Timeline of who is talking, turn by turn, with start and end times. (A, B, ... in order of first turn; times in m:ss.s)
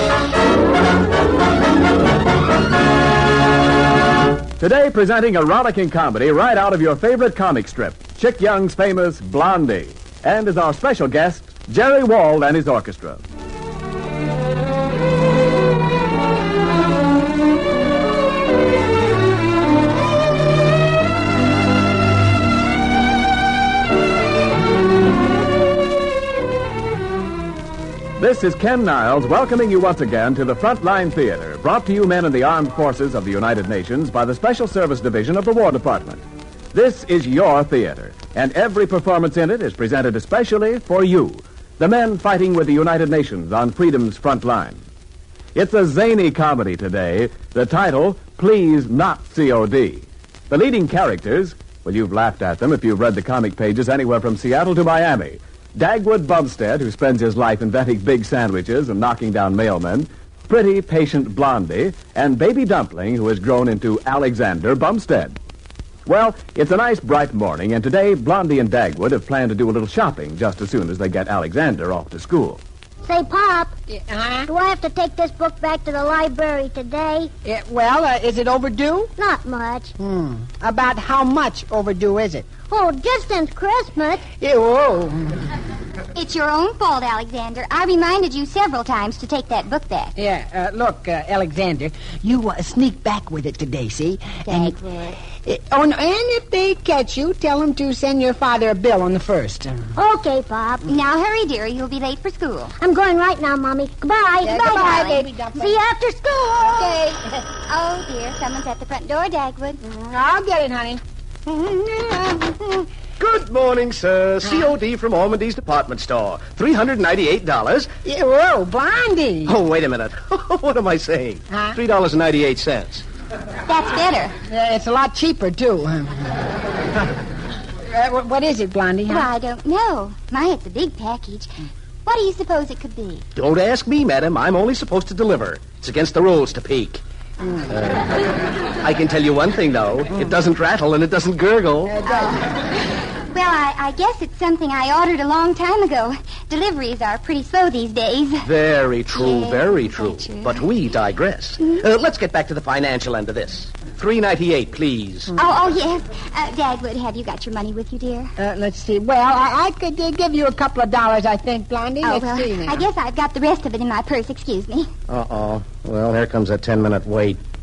0:04.6-0:13.2 A
0:28.2-0:44.8 A
0:45.6-1:05.4 A
1:06.1-1:12.6 A
1:13.0-1:13.8 B
1:13.9-1:14.5 C
1:14.5-1:17.3 B
1:17.4-1:19.1 C
1:19.2-1:19.9 B
1:20.0-1:22.5 C
1:22.7-1:24.3 B
1:24.3-1:25.4 C
1:26.2-1:30.2 D
1:30.2-1:34.8 C
1:34.5-1:35.2 D
1:35.4-1:39.9 C
1:40.0-1:40.9 B
1:40.8-1:42.8 D
1:42.8-1:44.6 B
1:44.4-1:45.7 C
1:44.5-1:45.3 D
1:45.6-1:47.0 B
1:46.7-1:47.4 C
1:47.7-1:49.8 D
1:49.8-1:51.0 C
1:51.8-1:52.4 C
1:53.2-1:57.9 E
1:58.0-1:59.6 C
1:59.5-2:03.0 E
2:01.5-2:01.8 C
2:03.7-2:04.4 D
2:04.5-2:06.5 C
2:07.9-2:09.3 C
2:09.1-2:13.2 D
2:13.4-2:17.0 E
2:17.7-2:18.2 E
2:18.8-2:22.0 E
2:21.9-2:22.5 C
2:22.0-2:28.5 D
2:28.4-2:35.3 E
2:29.1-2:30.6 D
2:35.4-2:38.3 D
2:38.4-2:42.8 C
2:42.0-2:44.9 D
2:45.1-2:47.4 E